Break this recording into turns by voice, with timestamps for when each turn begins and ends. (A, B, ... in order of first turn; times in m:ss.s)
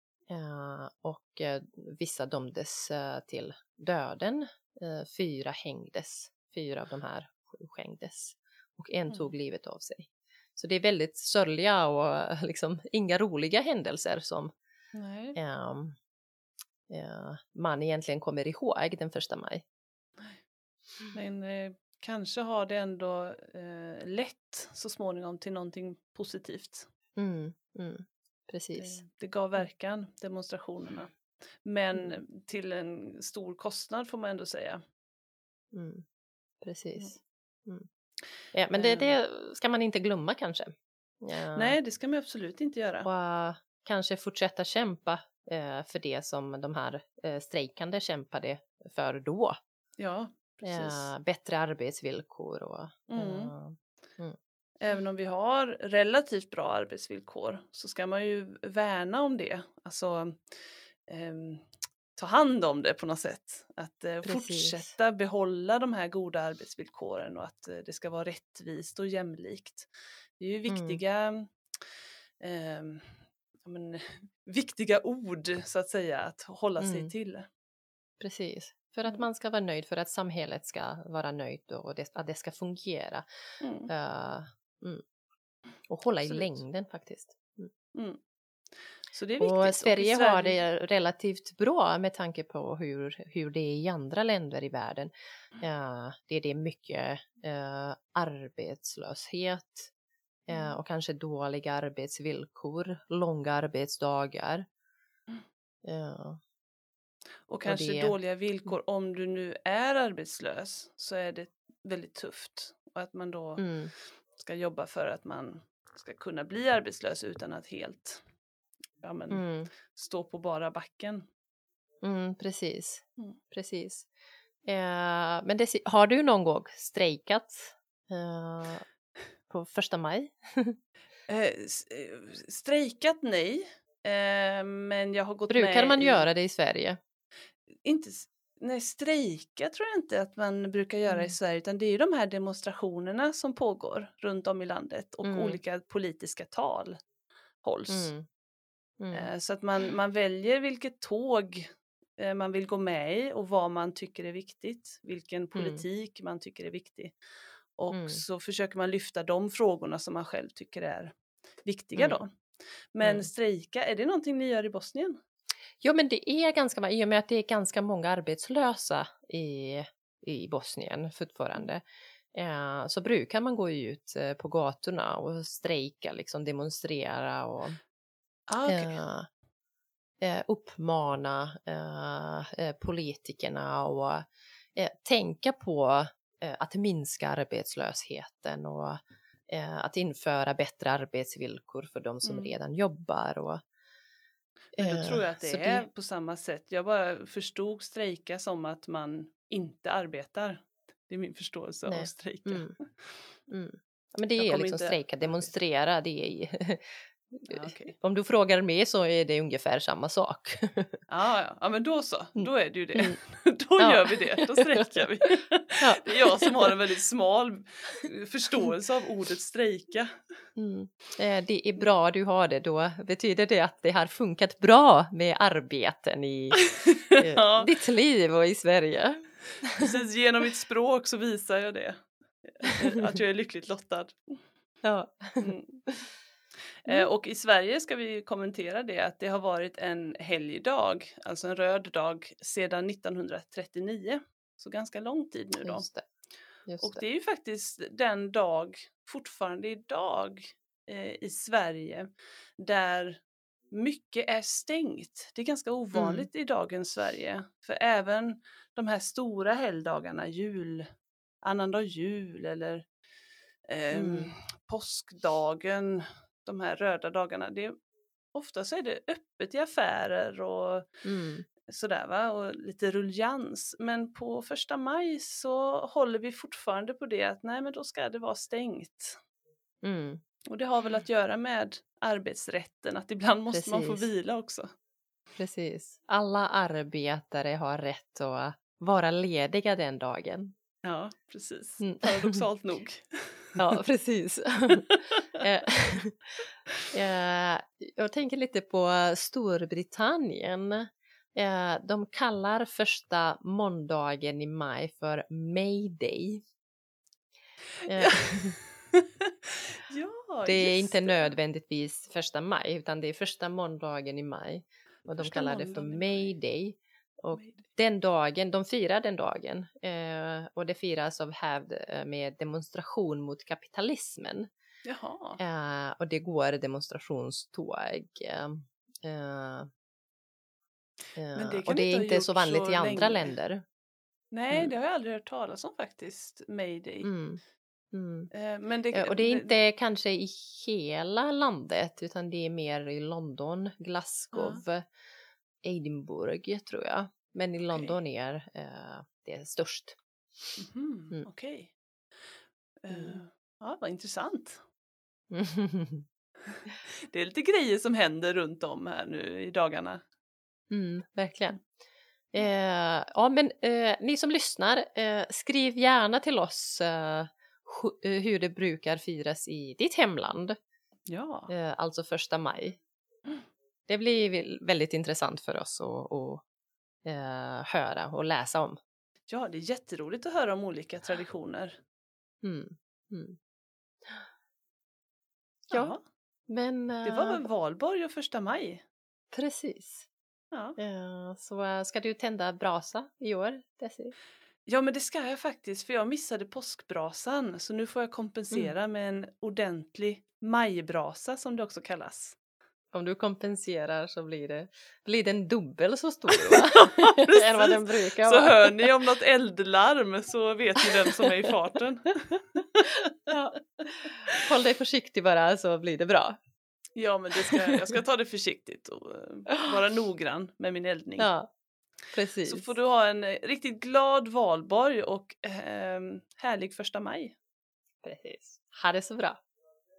0:00.3-0:14.5 A
0:14.9-0:15.4 B
0:15.4-0:16.0 A
0:16.9-0:19.6 A
0:21.1-0:26.9 B
0:27.2-0:29.0 A
0:28.8-0:34.8 B
0:35.7-0:36.0 A
0:36.6-0:37.9 A
0:38.5-0:41.8 A
0:38.7-0:39.2 B
0:41.5-0:43.1 B
0:43.0-0:49.6 A
0:50.0-0:51.1 B
0:50.6-0:54.4 A
0:53.1-0:53.5 B
0:54.8-1:11.9 B
1:04.2-1:04.9 A
1:10.7-1:11.0 A
1:12.4-1:17.5 B
1:16.8-1:17.1 A
1:18.2-1:23.2 A
1:23.6-1:23.9 B
1:23.9-1:25.0 A
1:25.9-1:27.7 A
1:26.2-1:26.6 B
1:27.9-1:28.2 B
1:29.1-1:30.6 B
1:29.4-1:39.9 A
1:40.5-1:44.6 A
1:40.5-1:40.8 B
1:45.8-1:46.4 A
1:47.5-1:53.7 B
1:47.6-1:48.2 A
1:53.6-1:53.9 A
1:54.3-1:58.2 B
1:59.0-2:01.3 B
1:59.3-1:59.7 A
2:02.0-2:04.1 A
2:04.6-2:08.8 A
2:09.5-2:10.8 A
2:11.3-2:16.3 B
2:15.5-2:17.0 A
2:17.8-2:27.0 B
2:21.1-2:21.4 A
2:25.2-2:25.6 A
2:27.6-2:28.1 B
2:27.9-2:28.2 A
2:29.0-2:29.3 A
2:29.1-2:37.2 B
2:35.6-2:35.8 A
2:37.8-2:42.4 B
2:37.9-2:38.2 A
2:42.0-2:42.2 A
2:42.9-2:45.2 B
2:43.0-2:43.3 A
2:45.8-2:57.8 A
2:58.5-2:59.0 B
2:58.7-2:59.3 A
3:00.2-3:13.6 A
3:12.2-3:12.5 B
3:14.8-3:15.9 A
3:14.8-3:23.2 B
3:21.9-3:22.7 A
3:23.5-3:31.0 A
3:24.4-3:25.5 B
3:27.5-3:28.0 B
3:31.1-3:40.1 B
3:32.4-3:33.2 A
3:33.8-3:35.1 A
3:35.8-3:36.7 A
3:40.6-3:49.9 A
3:46.6-3:47.7 B
3:49.8-3:54.4 B
3:54.8-3:56.1 A
3:55.4-3:55.8 B
3:56.8-4:05.9 B
4:05.6-4:06.0 A
4:06.7-4:07.0 A
4:06.8-4:20.9 B
4:15.9-4:16.3 A
4:21.4-4:22.9 B
4:23.7-4:27.7 B
4:23.9-4:24.3 A
4:28.3-4:30.9 B
4:31.0-4:31.5 A
4:31.7-4:39.2 B
4:39.8-4:40.2 A
4:40.5-4:44.7 B
4:43.5-4:44.1 A
4:45.4-4:50.5 A
4:50.8-4:53.6 B
4:51.8-4:52.4 A
4:53.6-4:56.4 A
4:54.7-4:55.0 B
4:56.9-5:06.4 A
5:07.8-5:11.4 B
5:07.9-5:08.6 A
5:10.4-5:24.5 A
5:15.2-5:16.3 B
5:17.4-5:17.6 B
5:24.8-5:25.4 B
5:25.4-5:29.7 A
5:31.2-5:33.6 A
5:31.3-5:33.3 B
5:34.3-5:37.1 B
5:37.0-5:37.4 A
5:37.9-5:38.3 A
5:38.3-5:39.5 B
5:38.9-5:44.9 A
5:44.3-5:44.6 B
5:45.6-5:50.0 A
5:47.7-5:48.0 B
5:50.6-5:51.7 B
5:52.8-5:54.6 B
5:52.9-5:53.2 A
5:55.3-5:56.1 A
5:56.5-6:00.0 B
6:00.7-6:01.6 A
6:02.3-6:10.6 A
6:11.1-6:11.5 B
6:11.5-6:12.8 A
6:13.9-6:16.4 A
6:17.0-6:18.8 A
6:19.3-6:21.8 B
6:22.4-6:23.4 A
6:25.7-6:26.0 B
6:26.5-6:27.5 A
6:27.0-6:28.8 B
6:29.3-6:30.1 A
6:30.5-6:30.8 B
6:30.8-6:34.1 A
6:34.7-6:42.4 B
6:42.9-6:48.9 A
6:46.4-6:53.4 B
6:53.3-6:53.6 A
6:54.4-6:56.4 A
6:57.0-7:01.3 B
6:57.4-6:57.9 A
7:01.2-7:01.5 A
7:02.1-7:02.7 A
7:02.4-7:07.4 B
7:08.0-7:09.4 A